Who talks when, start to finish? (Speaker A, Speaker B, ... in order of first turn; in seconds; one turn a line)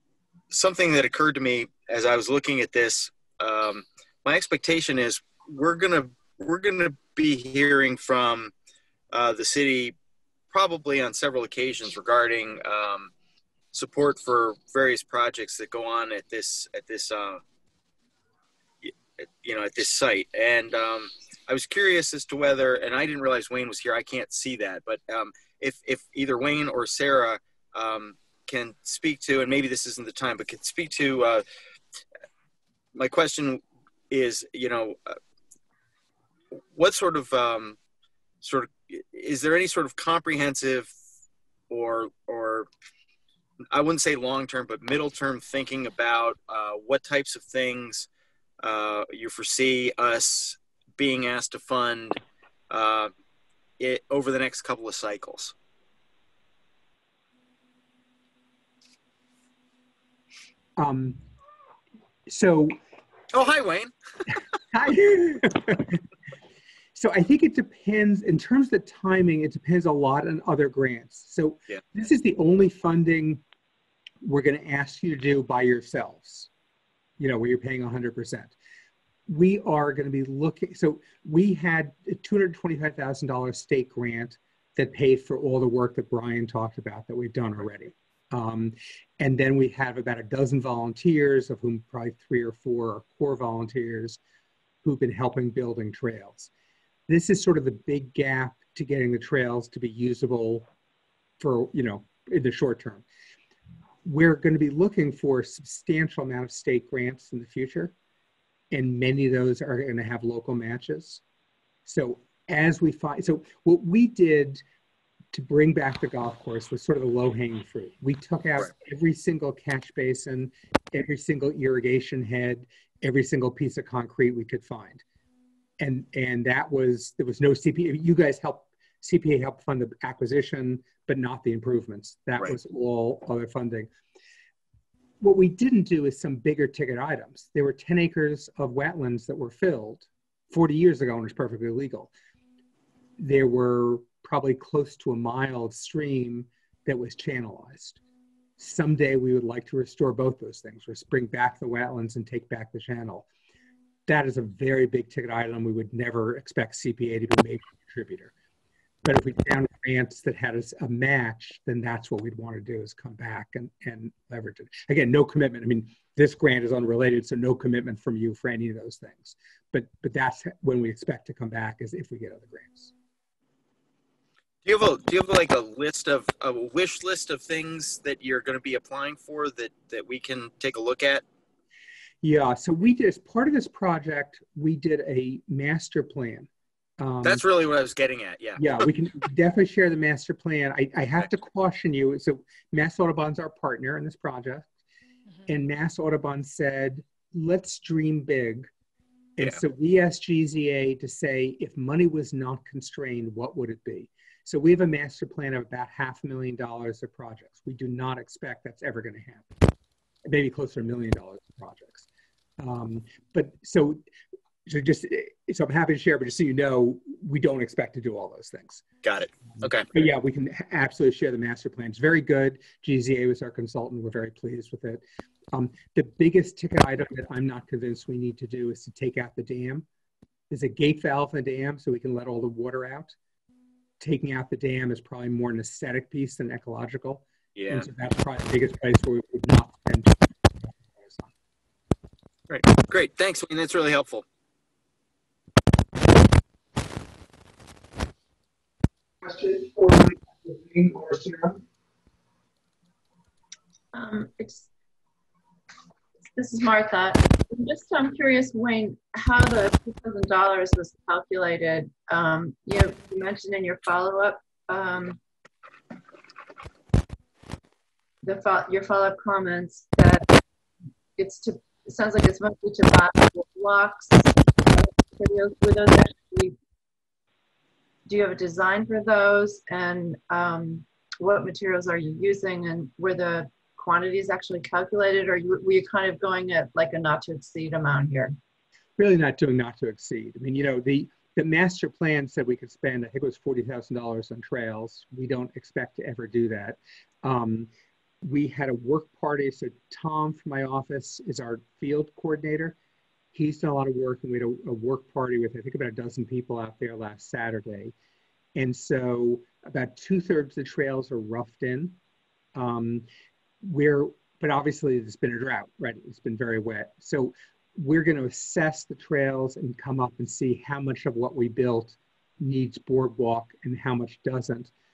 Speaker A: 0.5-8.5
Speaker A: 9.1-9.9
Speaker A: 10.5-13.1
Speaker A: 13.7-17.4
Speaker A: 18.8-31.4
Speaker A: 33.0-35.1
Speaker A: 36.7-37.8
Speaker A: 38.4-40.9
Speaker A: 41.7-42.7
Speaker A: 43.7-48.1
Speaker A: 48.6-52.2
Speaker A: 52.7-53.1
Speaker A: 53.8-55.5
Speaker B: 60.8-61.2
Speaker B: 62.3-62.8
Speaker A: 63.3-63.9
Speaker B: 64.7-66.0
Speaker B: 67.0-73.4
Speaker B: 74.2-76.5
Speaker B: 77.2-78.5
Speaker B: 79.3-94.2
Speaker B: 94.8-96.5
Speaker B: 97.1-100.7
Speaker B: 101.4-103.0
Speaker B: 104.0-107.9
Speaker B: 108.7-111.2
Speaker B: 111.9-114.6
Speaker B: 115.3-125.0
Speaker B: 125.8-133.9
Speaker B: 135.2-142.1
Speaker B: 143.2-148.0
Speaker B: 148.6-153.3
Speaker B: 154.1-158.3
Speaker B: 159.0-172.9
Speaker A: 174.7-181.2
Speaker B: 182.2-186.5
Speaker B: 187.0-187.4
Speaker A: 187.2-188.8
Speaker B: 188.6-194.7
Speaker B: 195.5-198.7
Speaker B: 199.4-209.6
Speaker B: 210.3-212.1
Speaker B: 212.6-214.0
Speaker B: 214.7-218.8
Speaker A: 219.0-219.9
Speaker B: 219.9-229.9
Speaker B: 230.5-233.2
Speaker B: 234.0-240.2
Speaker A: 237.6-237.9
Speaker B: 241.0-241.3
Speaker A: 242.5-244.2
Speaker C: 249.2-251.6
Speaker D: 253.9-254.7
Speaker D: 256.3-265.2
Speaker D: 268.2-270.3
Speaker D: 271.2-276.6
Speaker D: 278.1-288.3
Speaker B: 289.0-297.7
Speaker B: 298.2-302.8
Speaker B: 303.3-307.9
Speaker B: 308.6-312.0
Speaker B: 312.6-313.1
Speaker B: 313.6-324.7